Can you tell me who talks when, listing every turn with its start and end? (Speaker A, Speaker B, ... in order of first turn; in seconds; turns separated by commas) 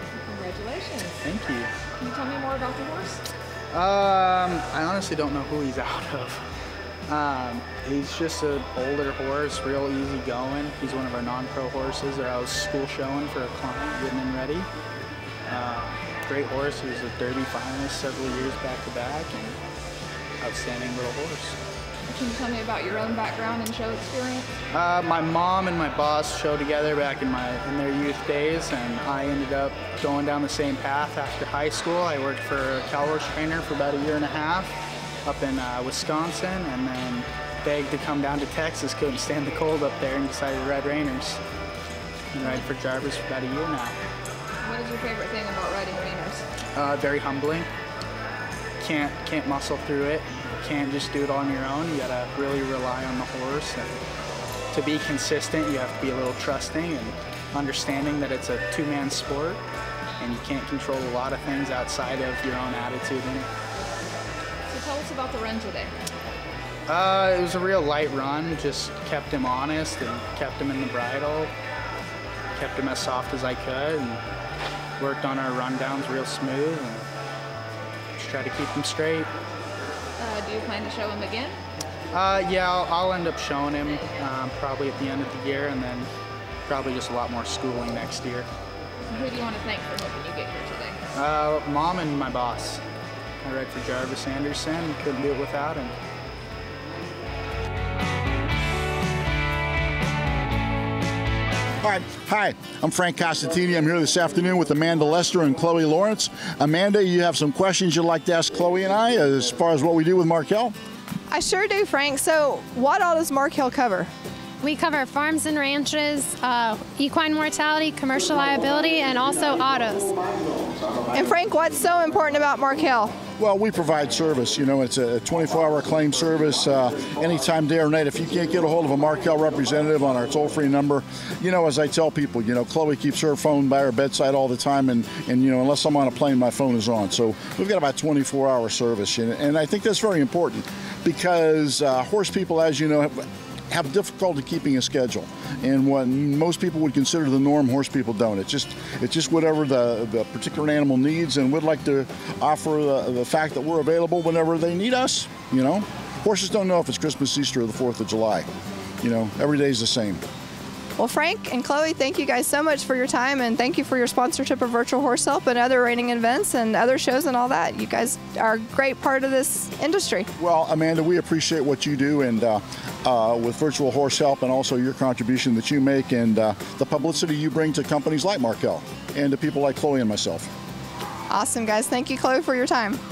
Speaker A: 0.1-1.2, Speaker B: 1.2-1.7, Speaker A: 2.0-3.3, Speaker B: 3.7-6.5, Speaker B: 7.1-14.7, Speaker B: 15.5-19.5, Speaker B: 20.4-21.6, Speaker A: 22.1-24.5, Speaker B: 24.7-41.4, Speaker B: 42.3-44.0, Speaker A: 44.6-46.4, Speaker B: 46.8-47.7, Speaker B: 48.8-54.0, Speaker B: 54.7-59.6, Speaker B: 60.2-63.5, Speaker A: 64.7-65.9, Speaker B: 66.9-71.5, Speaker B: 72.5-74.2, Speaker B: 75.0-77.1, Speaker B: 78.2-79.3, Speaker A: 80.2-81.6, Speaker B: 82.1-86.1, Speaker B: 86.7-88.5, Speaker A: 89.1-91.0, Speaker B: 91.1-92.8, Speaker B: 93.4-96.0, Speaker C: 101.8-110.8, Speaker D: 111.3-114.1, Speaker E: 114.6-120.2, Speaker D: 121.1-123.2, Speaker C: 123.4-158.5, Speaker C: 159.0-160.2, Speaker D: 161.0-170.3, Speaker C: 170.4-180.5, Speaker D: 181.3-183.0